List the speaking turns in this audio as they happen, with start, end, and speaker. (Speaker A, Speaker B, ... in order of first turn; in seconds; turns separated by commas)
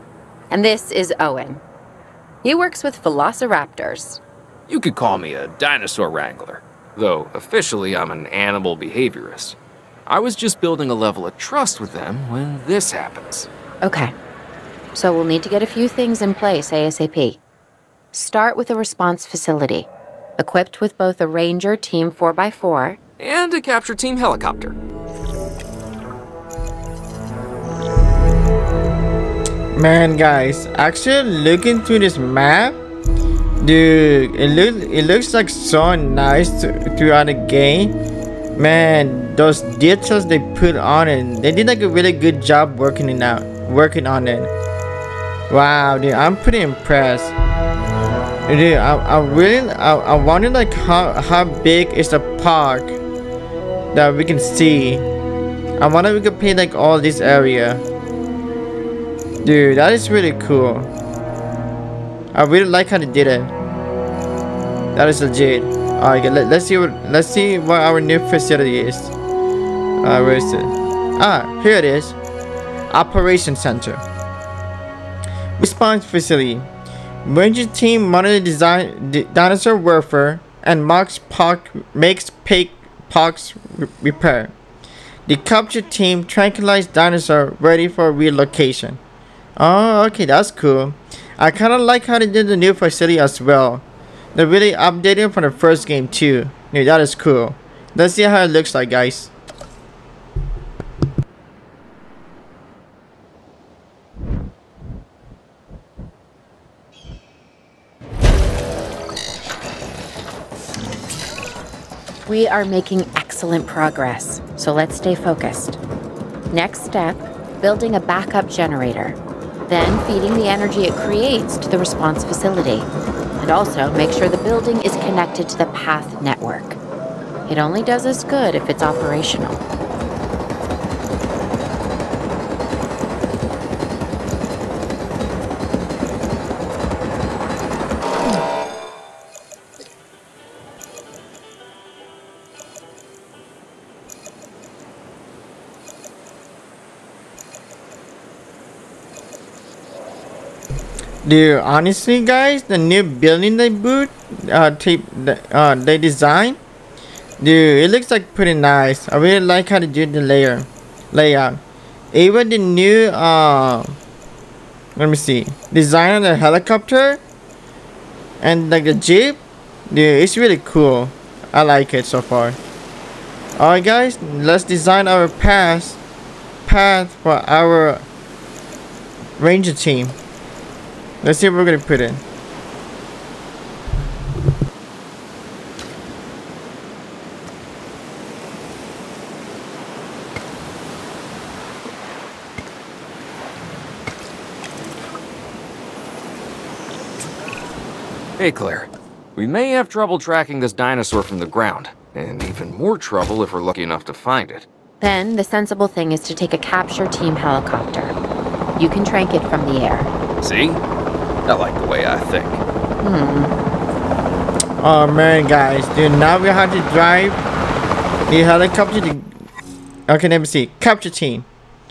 Speaker A: 0.5-1.6, Speaker A: 2.4-4.2, Speaker B: 4.7-13.5, Speaker A: 13.8-14.1, Speaker A: 14.9-17.4, Speaker A: 18.1-23.0, Speaker B: 23.2-24.8, Speaker C: 29.8-32.8, Speaker C: 33.6-38.0, Speaker C: 38.6-44.5, Speaker C: 45.5-47.3, Speaker C: 48.5-53.0, Speaker C: 53.9-55.1, Speaker C: 55.8-57.8, Speaker C: 59.4-60.9, Speaker C: 62.3-63.5, Speaker C: 64.9-69.1, Speaker C: 70.0-72.2, Speaker C: 72.9-74.0, Speaker C: 75.6-76.7, Speaker C: 77.2-84.5, Speaker C: 85.3-89.0, Speaker C: 89.6-99.3, Speaker A: 112.3-115.8, Speaker A: 116.5-126.8, Speaker A: 127.5-129.6, Speaker C: 151.2-156.6, Speaker C: 157.4-161.6, Speaker C: 162.1-164.0, Speaker C: 165.0-167.2, Speaker C: 168.4-172.6, Speaker C: 173.6-176.0, Speaker C: 176.6-178.1, Speaker C: 179.4-180.2, Speaker C: 181.2-182.2, Speaker B: 198.4-204.7, Speaker A: 205.0-208.1, Speaker A: 208.8-210.1, Speaker B: 210.4-210.8, Speaker B: 211.4-212.6, Speaker A: 213.0-213.6, Speaker C: 214.8-217.4, Speaker C: 218.3-219.3, Speaker C: 220.1-221.4